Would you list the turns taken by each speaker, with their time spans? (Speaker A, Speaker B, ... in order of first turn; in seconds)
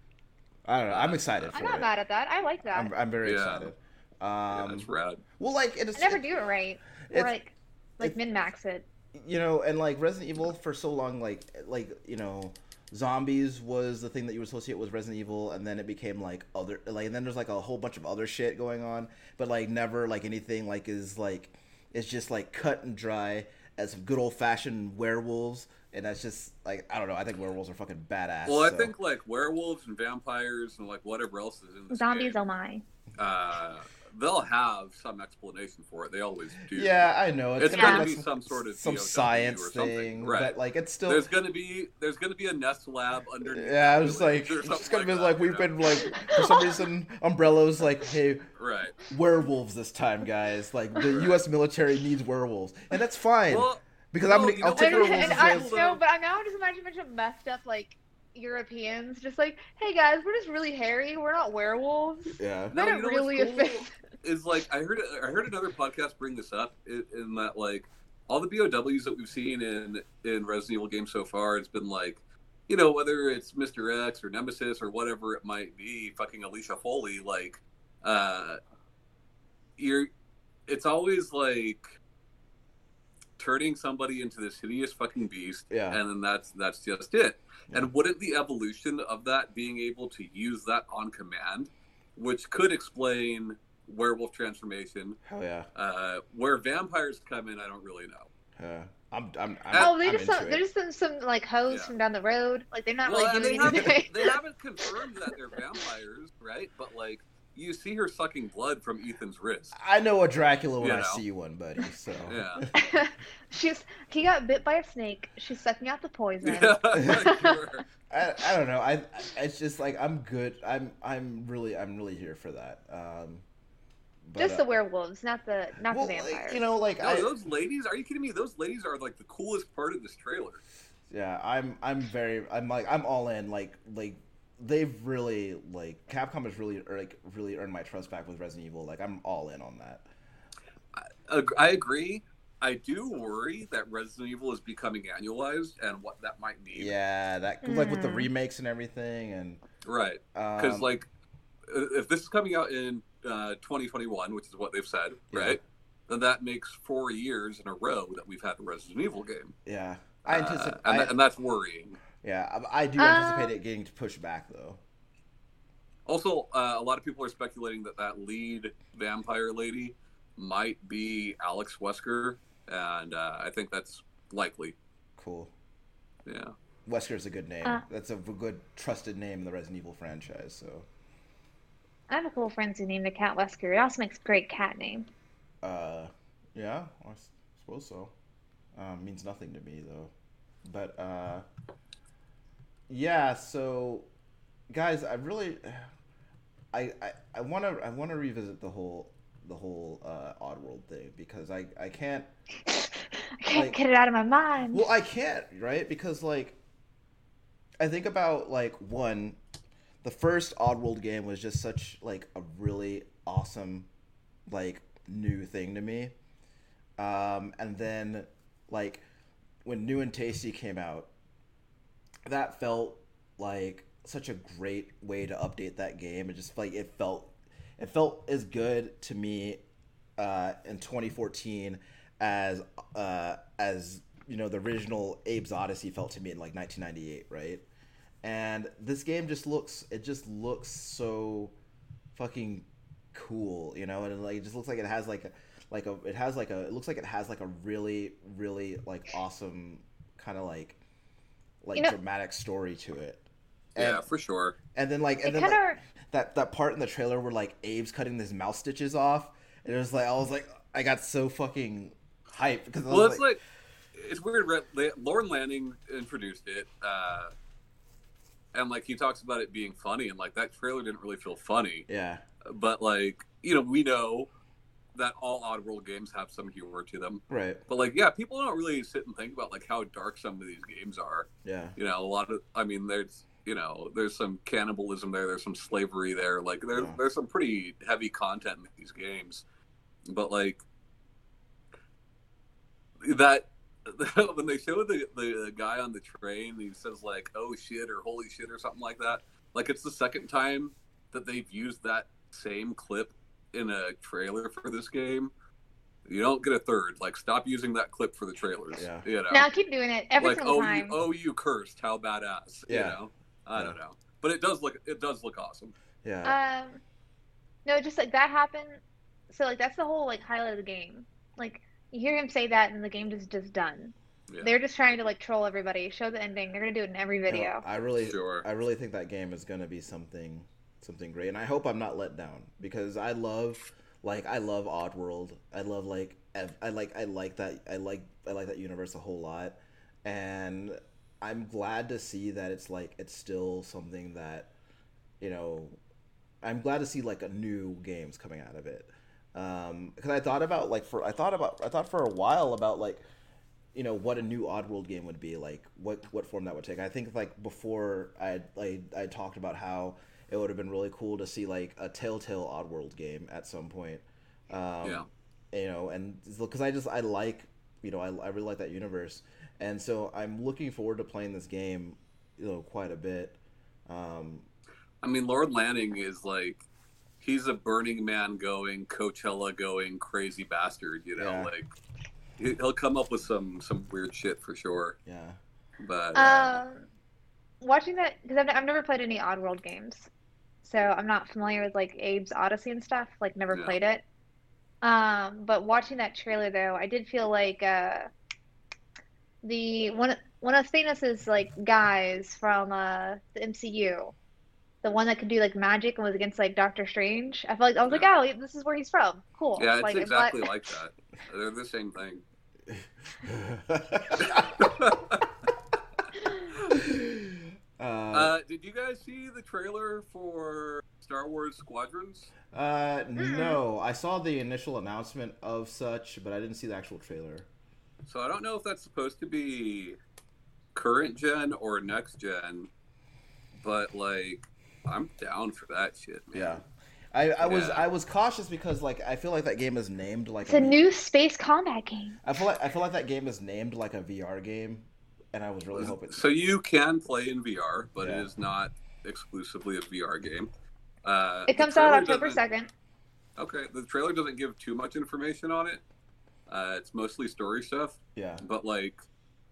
Speaker A: 0.7-1.9, 2.7-6.2, 9.1-28.9, 36.7-41.3, 43.4-48.5, 49.1-55.7, 62.4-62.7, 85.7-86.0, 95.2-95.7, 98.6-100.6, 103.4-104.0, 109.8-112.7, 116.9-117.3, 118.1-123.4, 124.2-124.7, 125.8-127.3, 131.1-140.0, 146.7-149.6, 150.3-150.8, 155.3-155.6, 159.7-161.1, 162.2-164.8, 175.2-175.5, 176.8-180.8, 185.6-188.1, 188.7-190.1, 190.6-191.4, 192.9-194.1, 194.7-195.9, 196.7-202.3, 203.5-203.8, 204.7-206.6, 207.8-209.4, 210.0-213.9, 214.5-216.1, 217.0-219.0, 219.6-221.1, 222.2-229.6, 230.2-237.7, 238.2-241.5, 242.2-250.8, 251.6-254.1, 254.7-263.2, 271.9-272.2, 277.3-277.6, 281.4-281.7, 308.7-309.1, 312.7-313.0, 316.0-316.4, 327.3-344.5, 345.2-345.8, 346.4-353.0, 353.7-374.5, 381.2-381.5, 385.1-385.4, 412.7-414.6, 416.7-418.3, 422.5-427.5, 436.3-440.8, 442.2-446.3, 448.0-448.3, 458.1-458.4
Speaker B: 0.9-1.5, 3.2-3.7, 4.5-5.2, 28.4-32.4, 33.2-40.5, 41.0-45.8, 48.6-49.0, 51.1-51.4, 53.5-56.0, 62.7-78.6, 79.8-80.1, 80.7-81.8, 83.4-95.2, 95.7-98.3, 103.0-109.8, 110.8-111.2, 112.2-112.7, 116.4-117.8, 127.0-130.6, 140.9-146.9, 149.8-151.1, 151.7-159.5, 160.2-162.0, 166.1-174.8, 176.2-176.5, 253.8-254.6, 262.9-263.4, 263.9-267.3, 268.5-271.9, 272.4-274.3, 274.9-289.4, 290.1-290.6, 293.0-305.3, 306.1-309.5, 310.2-315.7, 324.3-324.6, 328.0-328.4, 375.0-376.6, 377.2-381.7, 382.4-384.9, 385.8-386.6, 393.5-393.8, 409.6-412.2, 414.2-415.2, 418.1-422.3, 428.0-430.0, 430.7-432.7, 433.6-436.6, 437.4-437.9, 445.7-450.5, 451.0-452.4, 453.4-455.8, 456.5-459.0
Speaker C: 1.5-2.9, 5.9-8.9, 31.9-32.8, 37.7-38.1, 46.0-46.7, 54.8-63.9, 99.7-104.9, 105.6-105.8, 112.7-117.6, 124.4-126.6, 147.6-148.3, 163.0-163.5, 182.1-185.1, 202.7-204.8, 255.2-255.8, 309.3-311.0, 316.2-316.8, 317.6-327.6, 386.1-386.9, 387.6-390.1, 390.6-394.0, 394.8-398.1, 399.4-404.1, 404.8-410.5, 423.2-423.6, 440.4-442.2, 451.5-452.7